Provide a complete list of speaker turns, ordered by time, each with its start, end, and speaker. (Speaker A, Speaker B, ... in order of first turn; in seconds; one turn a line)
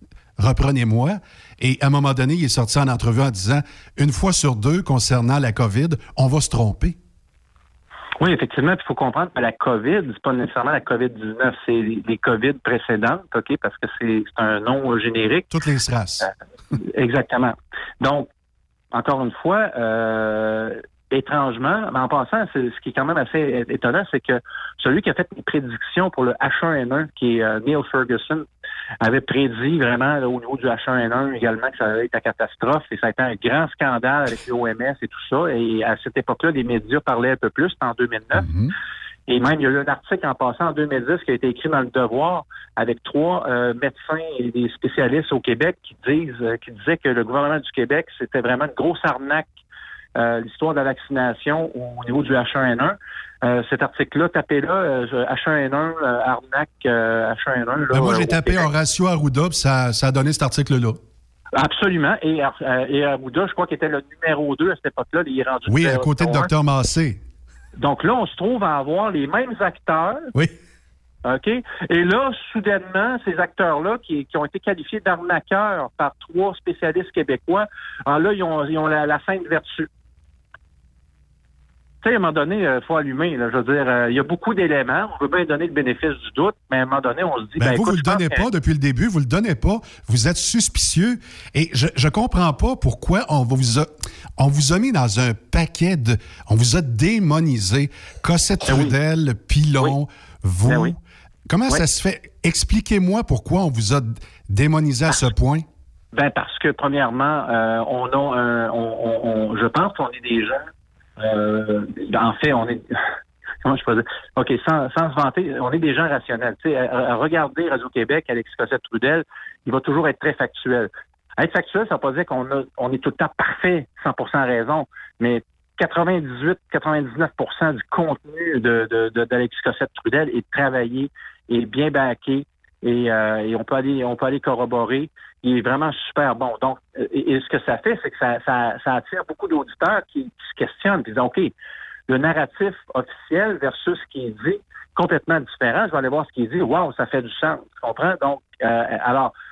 Speaker A: 0.4-7.0
Speaker B: 8.2-15.5
Speaker A: 15.5-16.3
Speaker B: 16.9-18.3
Speaker B: 18.9-28.4
Speaker B: 29.0-38.5
Speaker A: 38.3-38.7
Speaker B: 39.3-49.5
Speaker B: 50.2-58.7
Speaker A: 57.9-61.0
Speaker B: 61.5-66.5
Speaker A: 65.7-67.2
Speaker B: 67.8-70.3
Speaker B: 71.3-79.9
Speaker B: 82.0-88.4
Speaker A: 87.6-105.7
Speaker B: 98.7-98.9
Speaker B: 100.7-100.9
Speaker B: 106.1-110.6
Speaker B: 111.2-112.8
Speaker B: 113.6-141.5
Speaker B: 142.1-149.3